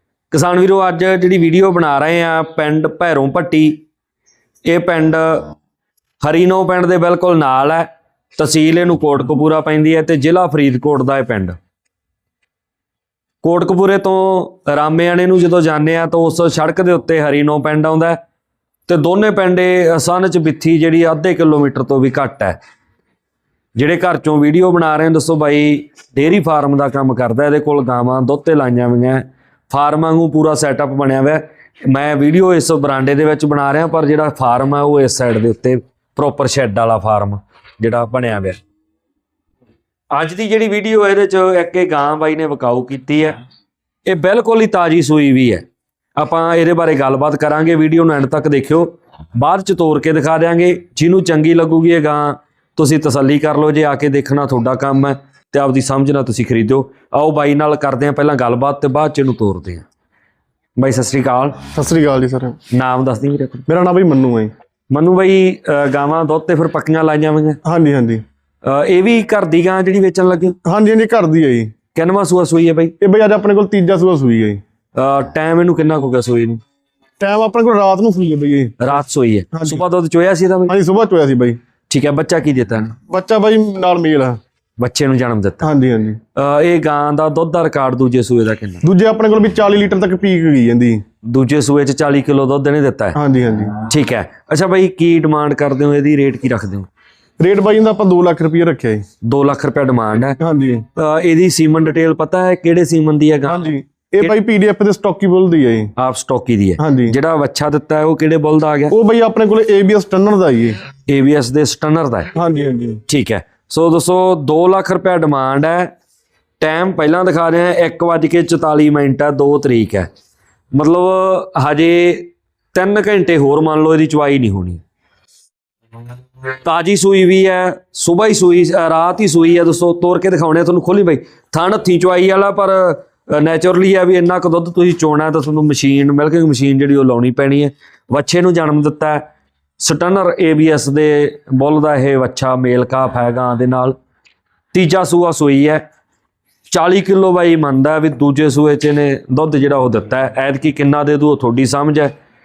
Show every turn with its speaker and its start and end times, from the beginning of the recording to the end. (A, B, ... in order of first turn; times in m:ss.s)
0:00.3-0:03.8 A
0:04.6-0:05.5 A
0:06.2-0:07.8 A
0:08.4-0:11.6 A
0:13.4-0:18.2 A
0:18.9-0:22.6 A
0:23.8-0:38.6 A
0:40.1-0:43.4 A
0:44.0-0:45.6 A
0:46.2-0:59.8 A
1:00.8-1:01.6 A
1:01.7-1:02.6 B
1:02.7-1:03.6 A
1:03.7-1:04.5 B
1:04.9-1:07.6 A
1:07.6-1:08.2 B
1:08.6-1:10.6 A
1:10.6-1:11.7 B
1:11.9-1:12.9 A
1:13.0-1:14.6 B
1:15.0-1:16.6 A
1:17.2-1:18.9 B
1:18.8-1:20.7 A
1:19.5-1:19.8 B
1:20.7-1:21.6 B
1:21.9-1:22.9 A
1:23.1-1:24.4 B
1:24.8-1:25.7 A
1:25.6-1:26.2 B
1:26.4-1:28.8 A
1:28.8-1:31.0 B
1:31.2-1:33.2 A
1:33.1-1:33.7 B
1:33.9-1:36.9 A
1:37.4-1:39.0 B
1:39.2-1:40.4 A
1:40.4-1:40.8 B
1:41.0-1:43.6 A
1:43.5-1:45.9 B
1:46.0-1:48.9 A
1:46.8-1:47.1 B
1:48.9-1:50.8 B
1:51.1-1:52.3 A
1:52.3-1:53.0 B
1:53.1-1:55.9 A
1:56.6-2:00.1 A
2:00.7-2:04.8 A
2:06.6-2:19.2 A
2:19.8-2:23.9 A
2:24.7-2:25.8 A
2:26.7-2:32.1 A